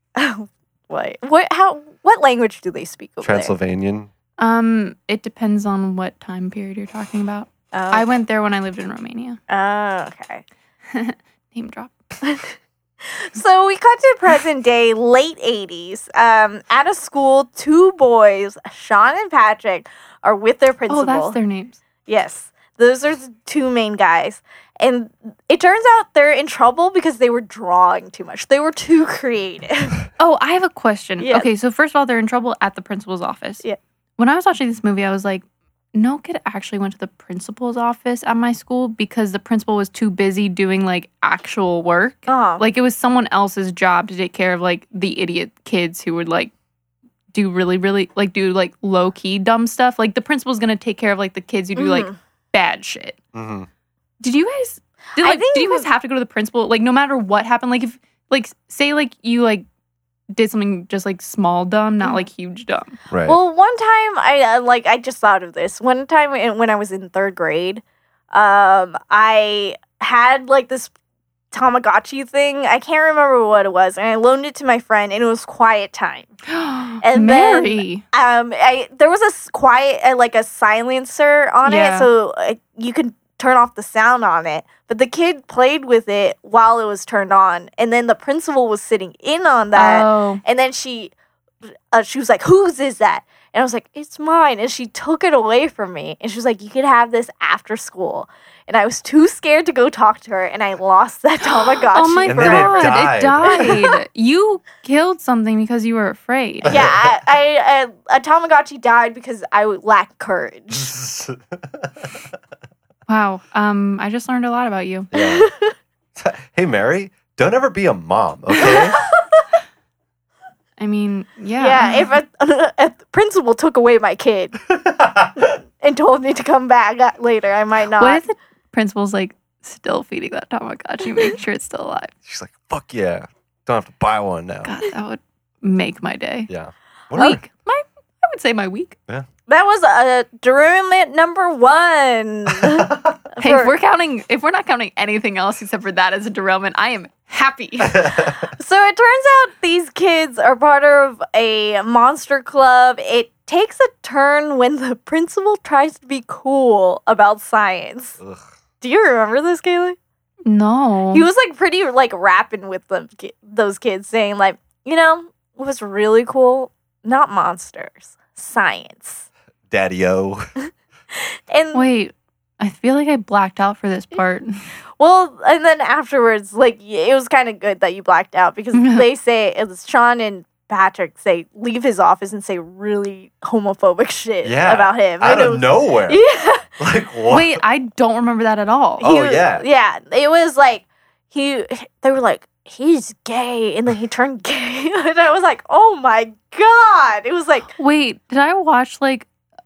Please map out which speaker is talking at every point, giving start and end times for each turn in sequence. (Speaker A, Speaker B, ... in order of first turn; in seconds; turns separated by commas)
Speaker A: 0.2-3.5, Speaker B: 3.2-4.1, Speaker C: 4.4-9.4, Speaker A: 7.7-8.1, Speaker A: 9.5-10.4, Speaker C: 10.9-11.9, Speaker A: 12.2-21.4, Speaker C: 20.9-21.8, Speaker A: 22.1-30.0, Speaker C: 30.2-33.6, Speaker A: 31.2-31.5, Speaker C: 34.2-35.4, Speaker C: 35.9-46.5, Speaker A: 42.3-42.6, Speaker C: 47.3-53.2, Speaker A: 51.8-52.2, Speaker B: 53.3-53.7, Speaker C: 54.2-59.6, Speaker A: 55.2-55.9, Speaker C: 60.3-63.0, Speaker B: 63.1-63.4, Speaker A: 63.2-67.8, Speaker A: 68.3-70.9, Speaker A: 71.5-76.3, Speaker C: 76.5-78.0, Speaker A: 77.0-91.1, Speaker C: 81.7-82.1, Speaker C: 89.8-90.4, Speaker A: 91.9-104.0, Speaker C: 101.5-106.8, Speaker B: 102.2-103.8, Speaker B: 106.6-107.1, Speaker A: 106.7-110.9, Speaker B: 110.7-112.2, Speaker C: 113.1-115.1, Speaker B: 115.1-115.5, Speaker A: 115.2-115.7, Speaker B: 116.2-119.0, Speaker C: 120.8-122.1, Speaker A: 121.6-124.6, Speaker B: 124.7-125.5, Speaker A: 125.8-128.2, Speaker C: 128.0-132.1, Speaker B: 132.3-134.7, Speaker C: 134.7-136.5, Speaker B: 136.5-137.4, Speaker C: 137.1-139.0, Speaker A: 139.5-143.7, Speaker B: 142.5-143.1, Speaker C: 143.4-148.2, Speaker B: 147.8-148.5, Speaker A: 148.6-158.2, Speaker A: 158.8-160.0, Speaker C: 160.5-161.3, Speaker A: 161.1-169.2, Speaker B: 169.7-170.4, Speaker A: 171.5-171.9, Speaker C: 171.7-174.6, Speaker A: 175.0-186.7, Speaker C: 178.7-179.1, Speaker B: 184.4-186.2, Speaker B: 186.8-187.6, Speaker C: 187.3-189.1, Speaker B: 189.0-189.6, Speaker A: 189.0-197.7, Speaker C: 197.7-199.3